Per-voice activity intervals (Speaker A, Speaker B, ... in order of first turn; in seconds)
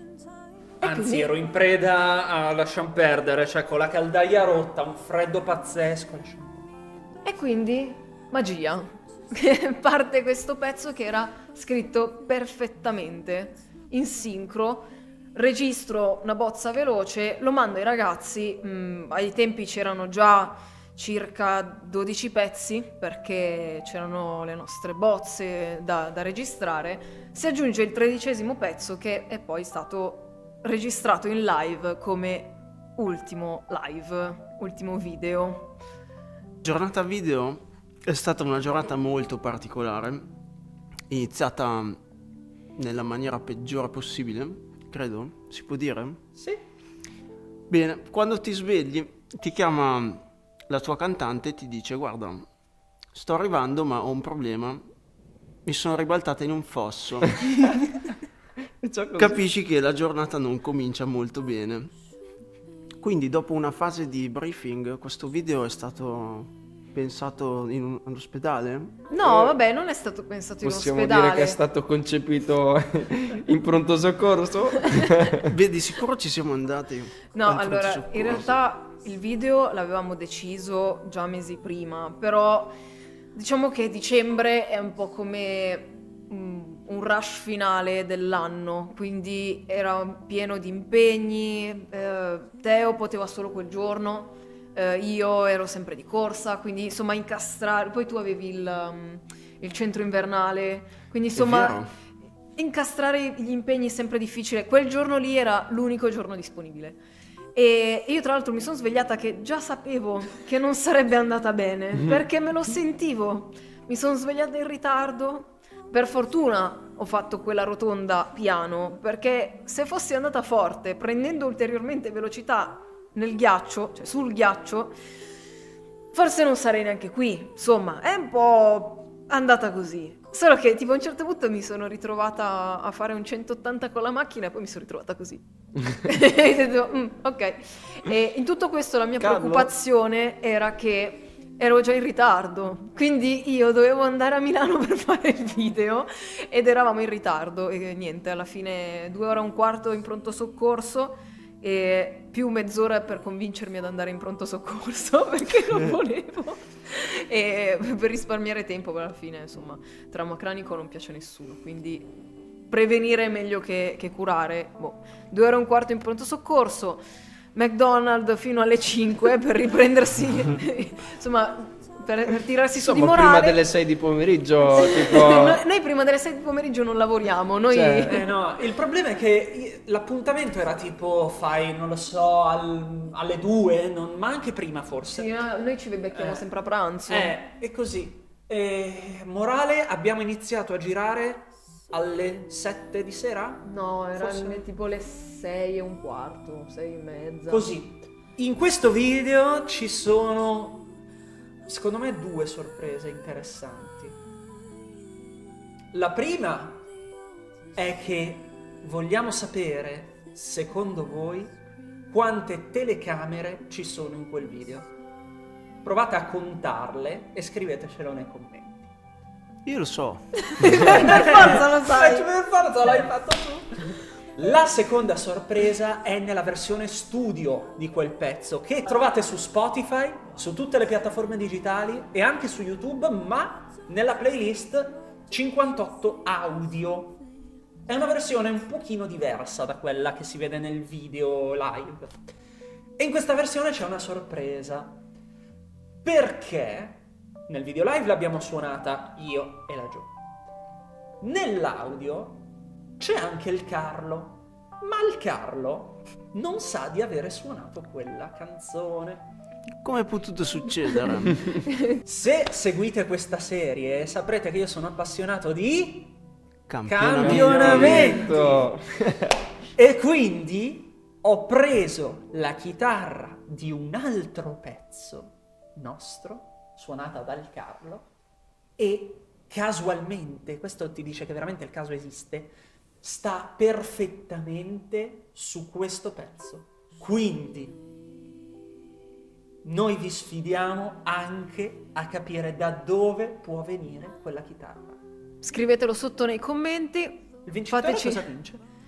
Speaker A: 0.8-1.3, 7.2-35.7, 69.1-71.6, 77.3-82.8, 83.3-101.9, 102.6-107.0, 107.5-125.0, 126.1-162.1, 162.7-167.0, 167.5-173.6, 174.7-178.3, 185.1-187.3, 193.6-197.7, 220.5-222.3, 295.4-298.2
Speaker B: 0.8-6.7, 46.3-46.6, 178.1-185.4, 186.1-186.4, 187.1-194.6, 197.5-200.9, 201.7-204.2, 205.9-206.8, 207.7-214.9, 215.8-218.9, 220.8-237.2, 237.8-242.3, 243.0-245.0, 246.0-250.1, 251.2-259.3, 262.0-266.2, 266.8-268.7, 269.7-278.1, 278.8-287.8, 289.6-295.0, 297.4-298.6
Speaker C: 36.6-40.2, 41.1-42.0, 42.8-46.2, 47.7-52.4, 53.1-54.8, 55.6-57.4, 59.2-61.9, 63.0-69.0, 75.5-78.5, 101.3-101.9, 139.2-139.7, 219.6-221.1, 259.8-261.4, 266.7-268.2
Speaker D: 58.8-59.4, 69.2-69.5, 70.6-75.5, 172.7-175.6, 177.7-178.1, 267.1-269.3